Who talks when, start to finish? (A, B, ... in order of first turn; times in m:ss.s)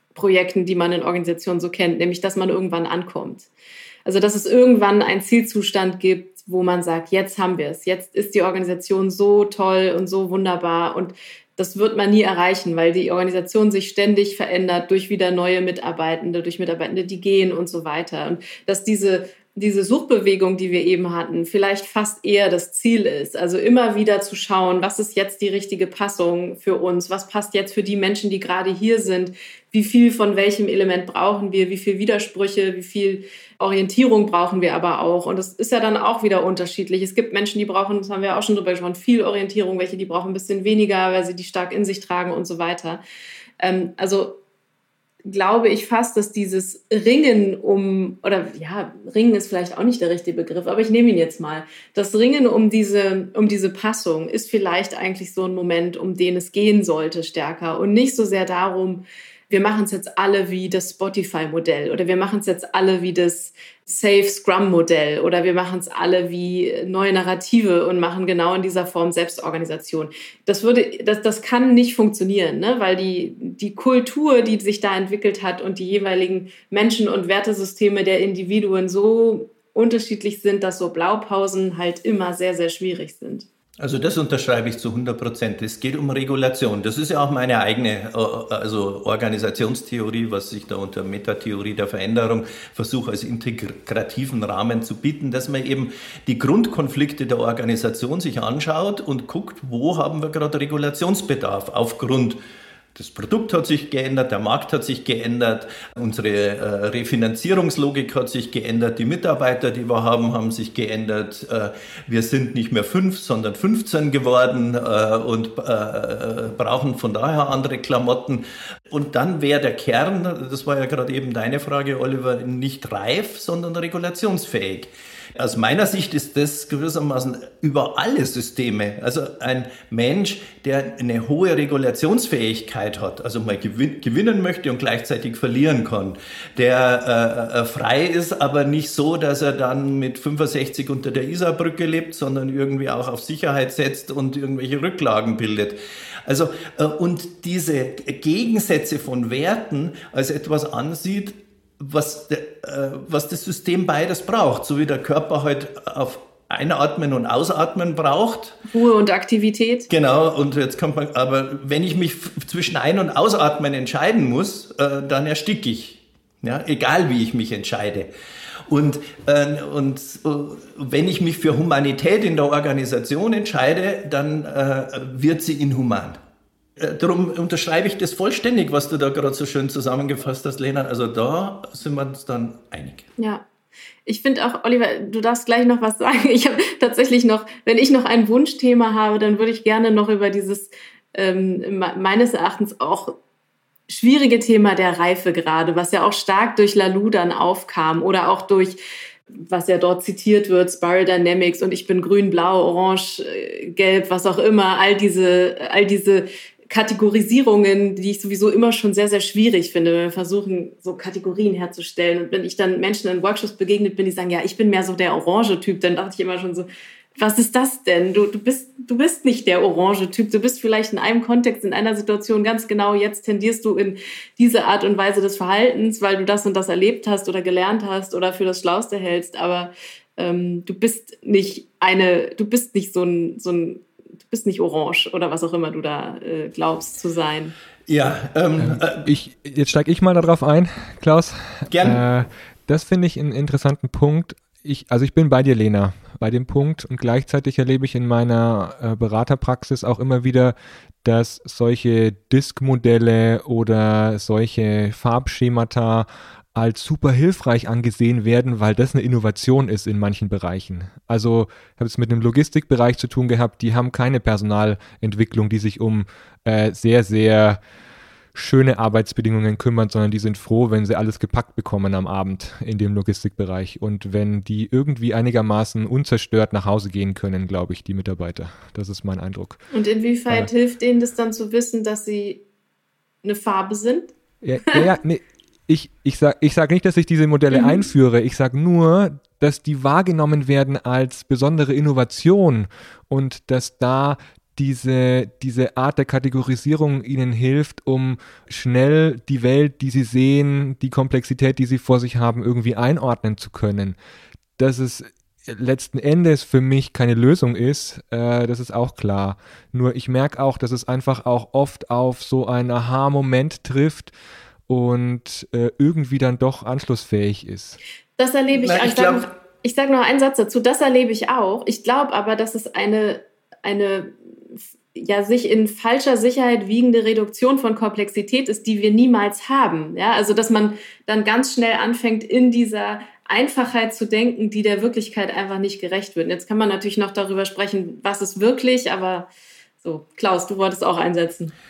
0:00.1-0:03.5 A
0:04.0-0:43.0 A
0:43.6-0:44.4 A
0:45.2-1:23.5 A
1:23.8-1:42.4 B
1:42.9-2:38.6 B
2:38.7-2:39.9 A
2:39.9-2:48.1 B
2:48.7-2:56.2 B
2:56.8-3:03.1 B
3:03.2-3:03.4 A
3:04.0-3:13.2 A
3:13.9-3:18.8 A
3:19.3-3:57.5 A
3:57.9-3:59.1 B
3:58.6-4:27.6 C
4:01.7-4:02.0 B
4:28.3-4:39.6 C
4:39.7-4:42.4 A
4:43.2-4:44.1 A
4:44.4-5:04.0 C
4:47.5-4:47.9 A
5:04.6-5:14.1 C
5:14.7-5:17.8 C
5:18.2-5:24.1 A
5:18.6-5:19.2 B
5:24.9-5:39.3 A
5:39.8-5:41.5 A